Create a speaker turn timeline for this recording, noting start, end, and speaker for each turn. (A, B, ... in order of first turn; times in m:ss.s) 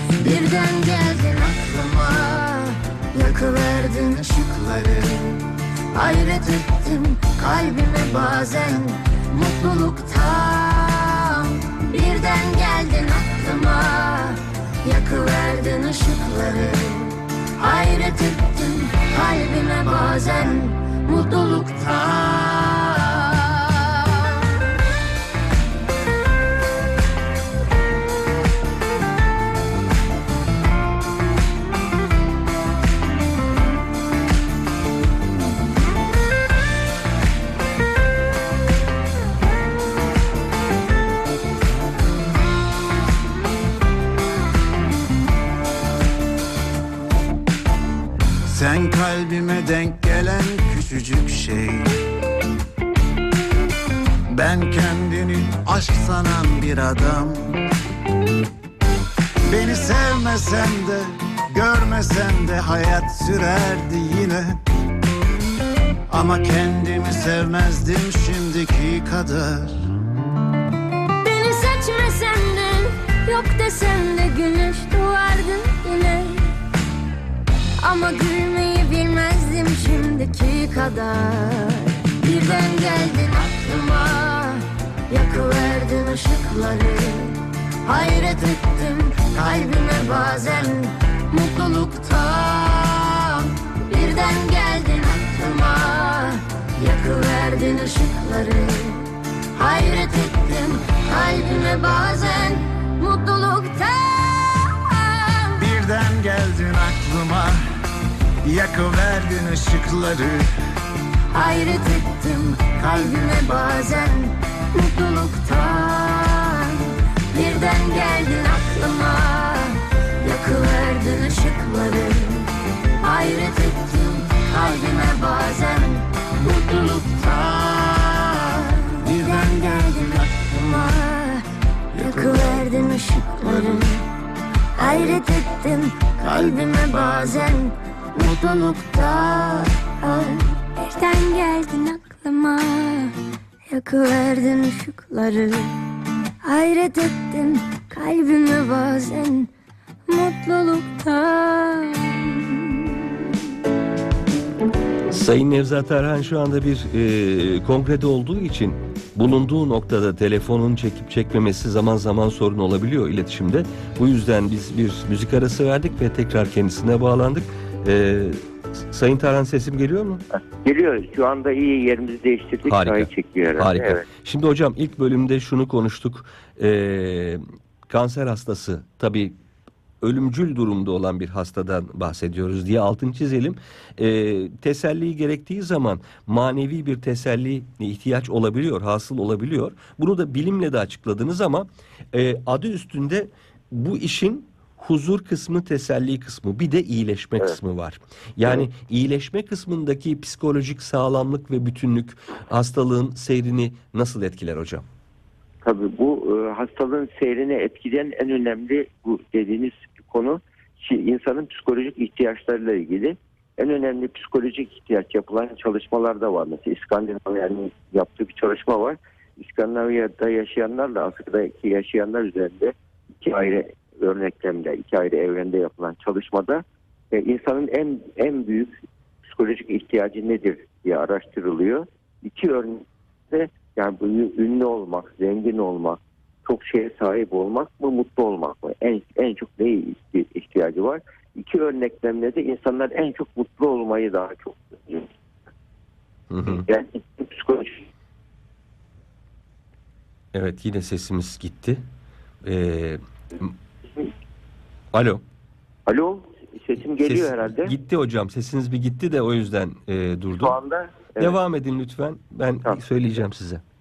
0:00.2-0:24.6 A
0:48.5-0:52.0 B
0:54.3-0:57.6 B
0:59.5-1:04.6 B
1:06.1-1:09.9 B
1:11.2-1:16.6 A
1:17.8-1:45.7 A
1:45.6-1:47.7 B
1:48.4-1:50.5 B
1:51.3-2:14.1 A
2:14.8-2:25.9 A
2:26.4-2:29.5 A
2:30.1-2:33.4 A
2:35.1-2:50.2 C
2:50.6-2:54.1 D
2:52.6-2:59.4 C
3:00.0-3:24.8 C
3:25.6-4:05.1 D
4:06.3-4:06.6 C
4:06.4-4:07.8 D
4:10.3-4:11.8 C
4:12.4-4:13.5 C
4:14.9-4:15.2 C
4:15.9-4:17.8 D
4:17.0-4:20.6 C
4:20.3-4:21.4 D
4:21.2-4:23.6 C
4:22.6-4:23.2 D